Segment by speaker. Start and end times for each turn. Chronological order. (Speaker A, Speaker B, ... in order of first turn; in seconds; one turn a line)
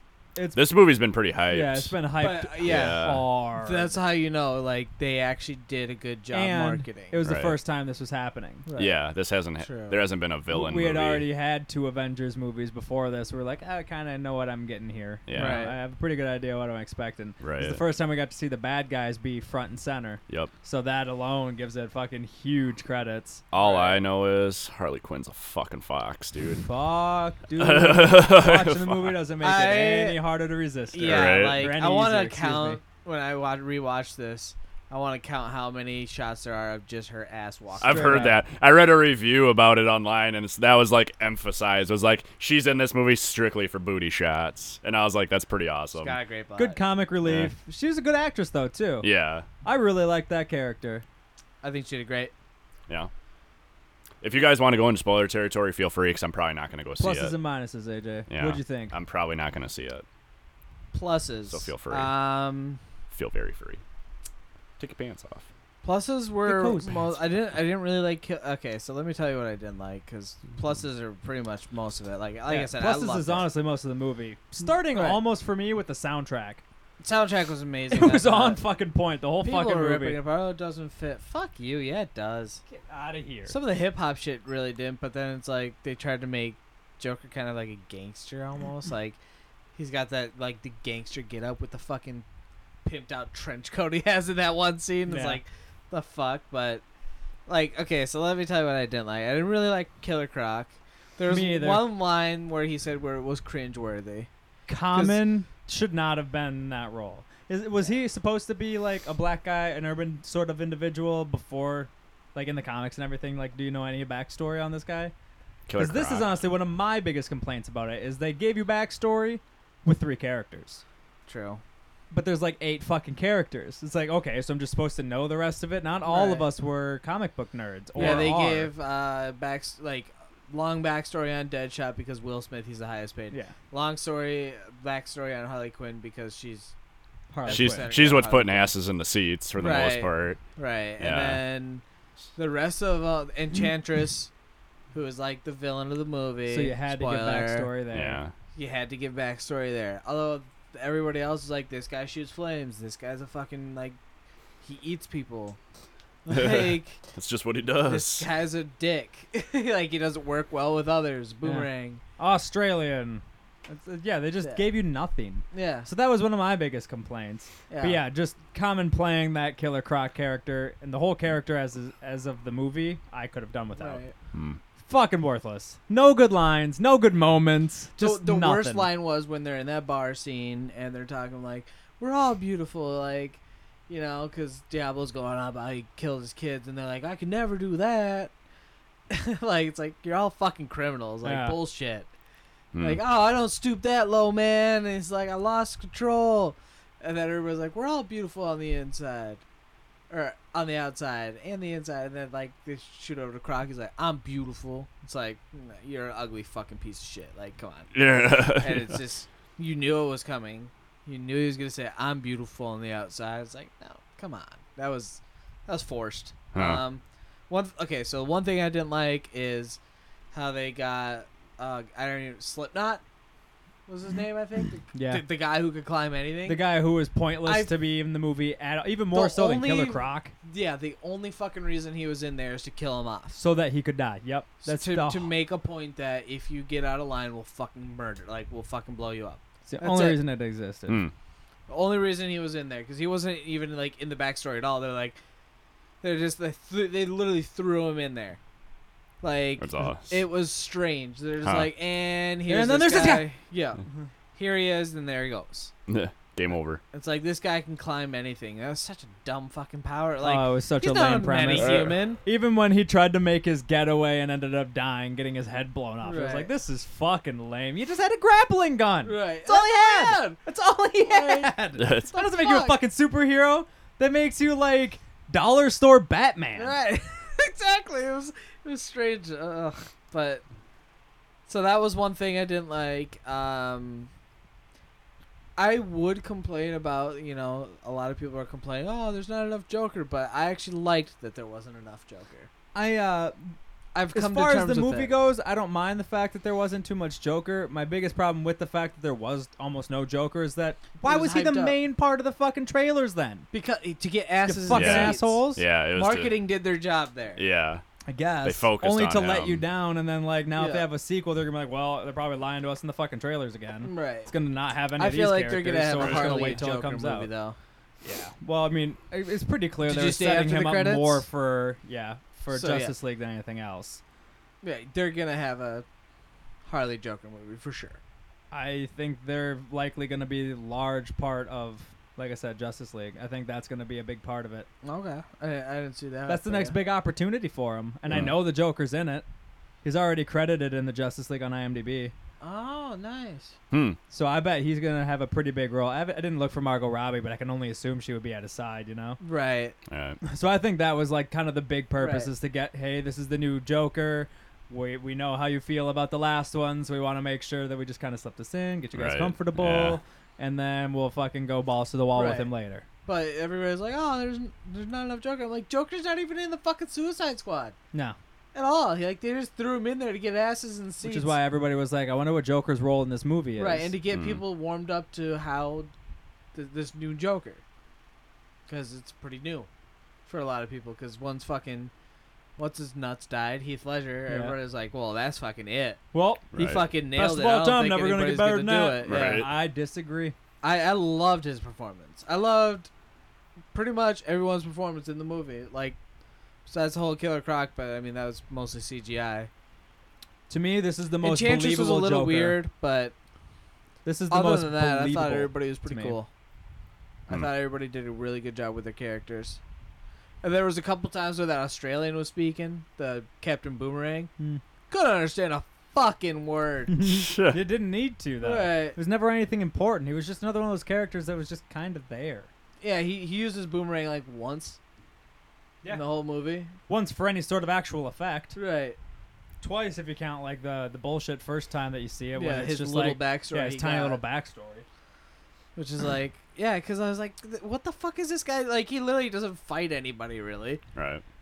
Speaker A: 0.4-0.8
Speaker B: 0.5-2.0
Speaker A: 1.5-3.9
Speaker C: 2.2-7.2
Speaker B: 2.6-3.2
Speaker A: 6.3-8.7
Speaker B: 7.2-7.6
Speaker C: 8.7-9.0
Speaker B: 8.8-11.3
Speaker C: 9.6-10.0
Speaker A: 10.5-23.4
Speaker B: 15.3-15.7
Speaker C: 15.3-15.8
Speaker B: 17.4-17.8
Speaker B: 23.5-26.6
Speaker C: 23.6-24.0
Speaker A: 26.6-32.8
Speaker B: 27.6-29.1
Speaker C: 29.4-30.2
Speaker C: 30.9-38.3
Speaker B: 31.0-31.7
Speaker A: 37.8-38.4
Speaker B: 37.8-46.2
Speaker C: 45.9-46.8
Speaker A: 46.6-49.1
Speaker B: 47.2-47.5
Speaker B: 49.0-49.5
Speaker A: 49.6-51.0
Speaker C: 51.6-52.3
Speaker B: 54.2-57.3
Speaker A: 57.0-58.9
Speaker B: 58.3-60.0
Speaker C: 60.9-62.8
Speaker B: 61.5-62.1
Speaker B: 63.1-63.8
Speaker B: 64.8-65.5
Speaker C: 65.8-73.5
Speaker A: 66.4-67.2
Speaker A: 72.5-76.6
Speaker C: 74.7-75.2
Speaker C: 77.0-78.6
Speaker A: 77.9-80.2
Speaker C: 79.4-82.6
Speaker A: 82.7-83.6
Speaker C: 83.5-89.2
Speaker C: 89.8-92.2
Speaker C: 92.8-96.8
Speaker A: 95.1-95.4
Speaker C: 97.5-104.3
Speaker A: 101.3-101.9
Speaker A: 104.7-115.1
Speaker C: 104.9-105.2
Speaker B: 115.7-116.4
Speaker A: 115.8-120.8
Speaker C: 121.3-121.6
Speaker A: 122.1-128.7
Speaker C: 126.0-126.5
Speaker B: 127.9-128.3
Speaker C: 128.0-136.7
Speaker A: 137.3-137.9
Speaker C: 137.4-138.7
Speaker B: 137.5-140.4
Speaker C: 139.6-141.8
Speaker B: 141.0-141.4
Speaker C: 142.3-144.3
Speaker C: 144.9-147.7
Speaker A: 146.5-148.2
Speaker B: 147.9-148.3
Speaker C: 148.6-154.0
Speaker C: 154.6-155.6
Speaker C: 156.3-157.0
Speaker B: 156.3-158.3
Speaker C: 157.8-162.0
Speaker A: 161.4-174.0
Speaker C: 165.5-165.9
Speaker C: 167.7-168.0
Speaker C: 173.8-174.1
Speaker B: 174.3-174.6
Speaker A: 174.8-178.9
Speaker C: 178.0-188.3
Speaker C: 189.1-192.1
Speaker A: 191.2-191.6
Speaker B: 192.7-193.0
Speaker C: 192.8-199.4
Speaker C: 200.1-219.8
Speaker B: 207.9-208.9
Speaker B: 216.5-216.8
Speaker C: 220.3-223.0
Speaker C: 223.9-226.7
Speaker A: 224.9-225.2
Speaker A: 226.4-230.3
Speaker C: 227.4-227.7
Speaker C: 229.1-233.4
Speaker A: 233.3-235.3
Speaker C: 234.6-240.2
Speaker A: 239.7-241.0
Speaker B: 240.9-241.1
Speaker C: 241.7-245.2
Speaker C: 246.0-248.4
Speaker C: 249.2-253.8
Speaker B: 249.6-250.2
Speaker B: 251.4-251.7
Speaker A: 252.5-253.3
Speaker C: 254.3-255.7
Speaker B: 255.9-256.8
Speaker C: 256.9-262.2
Speaker A: 260.2-276.8
Speaker B: 261.5-262.0
Speaker C: 266.0-266.5
Speaker C: 269.1-270.4
Speaker C: 271.0-272.8
Speaker B: 271.8-272.1
Speaker C: 276.6-280.4
Speaker C: 281.5-284.1
Speaker C: 285.6-292.5
Speaker A: 292.8-293.6
Speaker C: 293.9-295.1
Speaker A: 294.1-303.5
Speaker C: 301.0-301.8
Speaker C: 303.5-307.4
Speaker A: 304.4-305.6
Speaker B: 304.7-306.4
Speaker B: 307.4-307.8
Speaker A: 308.1-317.3
Speaker B: 308.4-309.6
Speaker C: 310.6-310.9
Speaker C: 313.8-314.3
Speaker C: 315.0-317.6
Speaker B: 316.0-316.5
Speaker A: 318.0-324.0
Speaker C: 319.8-321.2
Speaker C: 322.5-322.9
Speaker C: 324.6-325.9
Speaker C: 326.6-328.0
Speaker A: 328.5-334.7
Speaker C: 334.8-336.8
Speaker A: 336.3-339.2
Speaker B: 338.1-338.4
Speaker A: 339.8-342.1
Speaker C: 342.4-343.6
Speaker B: 343.7-344.0
Speaker A: 344.1-349.2
Speaker C: 349.2-349.8
Speaker B: 349.9-350.2
Speaker A: 350.2-362.8
Speaker C: 351.9-352.3
Speaker B: 358.9-360.0
Speaker C: 362.1-362.5
Speaker C: 363.1-367.8
Speaker C: 368.5-371.4
Speaker A: 371.0-373.9
Speaker C: 373.6-375.9
Speaker B: 374.1-374.4
Speaker C: 376.5-377.6
Speaker C: 378.7-379.7
Speaker C: 380.3-381.9
Speaker C: 382.6-386.1
Speaker A: 384.3-384.6
Speaker A: 386.1-390.4
Speaker B: 386.5-386.8
Speaker C: 386.6-389.4
Speaker B: 389.0-389.5
Speaker C: 390.6-392.9
Speaker C: 393.7-396.0
Speaker C: 396.7-399.5
Speaker A: 400.5-402.6
Speaker C: 401.2-403.1
Speaker A: 404.1-406.2
Speaker C: 404.3-406.3
Speaker C: 407.3-409.6
Speaker C: 410.4-414.3
Speaker C: 414.9-417.1
Speaker A: 416.9-422.5
Speaker B: 417.1-417.6
Speaker C: 418.4-419.0
Speaker C: 422.8-424.8
Speaker C: 425.9-426.7
Speaker A: 426.9-428.6
Speaker C: 428.6-429.0
Speaker A: 429.6-434.8
Speaker C: 432.4-434.2
Speaker C: 435.8-440.8
Speaker B: 440.9-441.2